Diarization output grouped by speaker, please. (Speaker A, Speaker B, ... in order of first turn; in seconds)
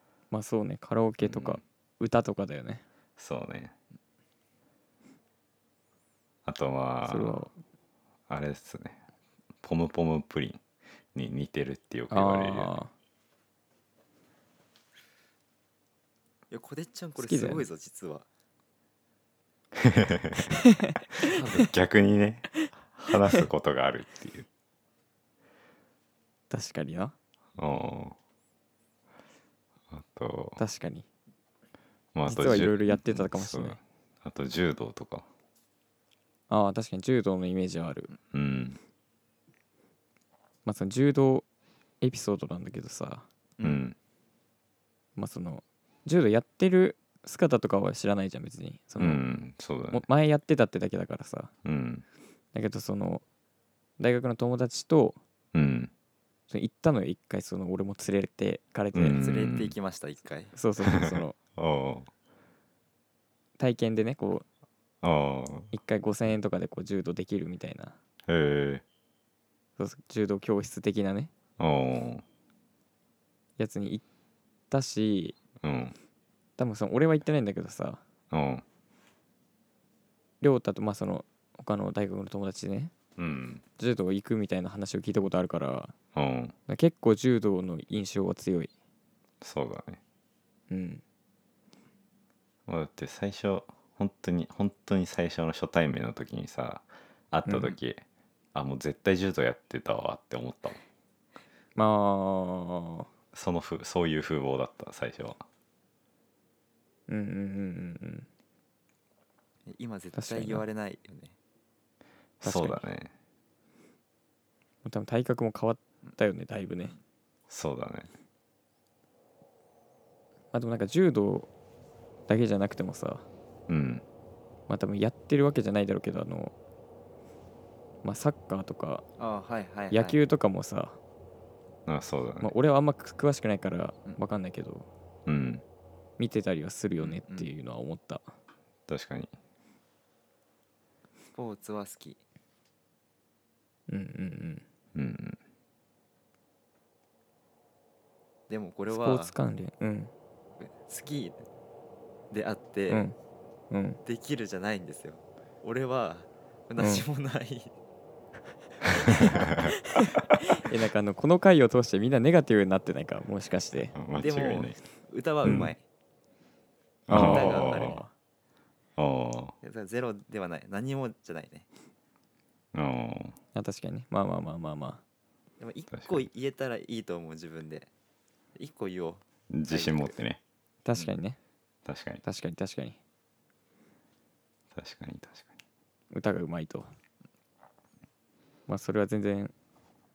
Speaker A: 0.3-2.8, 7.1-7.5, 12.1-12.9, 17.2-17.6, 20.6-21.3, 26.5-27.1, 30.6-31.1, 32.3-33.8, 36.5-38.1, 40.6-41.5, 42.0-43.3, 45.2-49.2, 49.9-51.5, 52.5-53.2, 54.0-55.2, 56.5-59.2, 60.5-61.4, 63.6-64.5, 65.7-68.0, 69.8-71.3, 73.6-74.0, 74.7-75.4, 76.6-78.0, 80.4-82.9, 83.8-85.9, 86.7-88.7, 90.7-91.0, 97.5-97.8, 101.8-103.1, 107.1-108.3, 110.2-110.7, 112.4-112.8, 114.8-117.0, 120.5-121.5, 122.3-123.3, 124.7-126.5, 128.0-129.0, 129.9-131.0, 132.4-134.9, 136.2-138.3, 143.9-144.6, 148.9-150.1, 152.9-153.2, 153.7-154.0, 156.8-157.1, 159.6-163.9, 167.1-168.1, 173.6-175.0, 180.8-181.4, 182.2-183.0, 186.1-186.9, 188.7-189.5
Speaker B: 1.2-1.6, 3.2-3.7, 6.5-7.4, 8.3-9.0, 9.6-10.6, 11.2-12.8, 19.8-20.6, 21.4-24.5, 27.6-28.2, 29.9-30.6, 32.1-35.3, 38.3-38.8, 43.6-44.0, 49.0-50.1, 51.6-52.0, 55.5-55.9, 58.9-59.8, 60.9-62.1, 65.0-65.7, 68.3-68.8, 71.6-72.2, 75.6-76.0, 78.3-78.6, 83.2-83.6, 86.1-86.5, 89.4-90.0, 92.7-98.0, 98.5-100.8, 103.3-105.4, 112.4-113.1, 117.5-118.1, 123.7-124.0, 131.9-132.6, 135.3-135.6, 138.9-139.3, 144.9-145.4, 159.2-159.7, 163.9-164.8, 165.4-165.7, 167.1-168.0, 169.0-169.6, 172.7-173.4, 175.9-176.3, 179.5-180.4, 181.8-182.2, 184.7-185.5
Speaker C: 16.5-18.3, 21.3-21.7, 43.6-43.9, 59.2-60.5, 109.7-111.3, 129.2-130.2, 137.0-137.5, 141.3-142.2, 148.5-149.3, 150.6-151.4, 152.3-153.1, 154.1-157.7, 164.2-165.8, 167.1-168.0, 169.6-171.7, 175.6-177.9, 178.6-180.2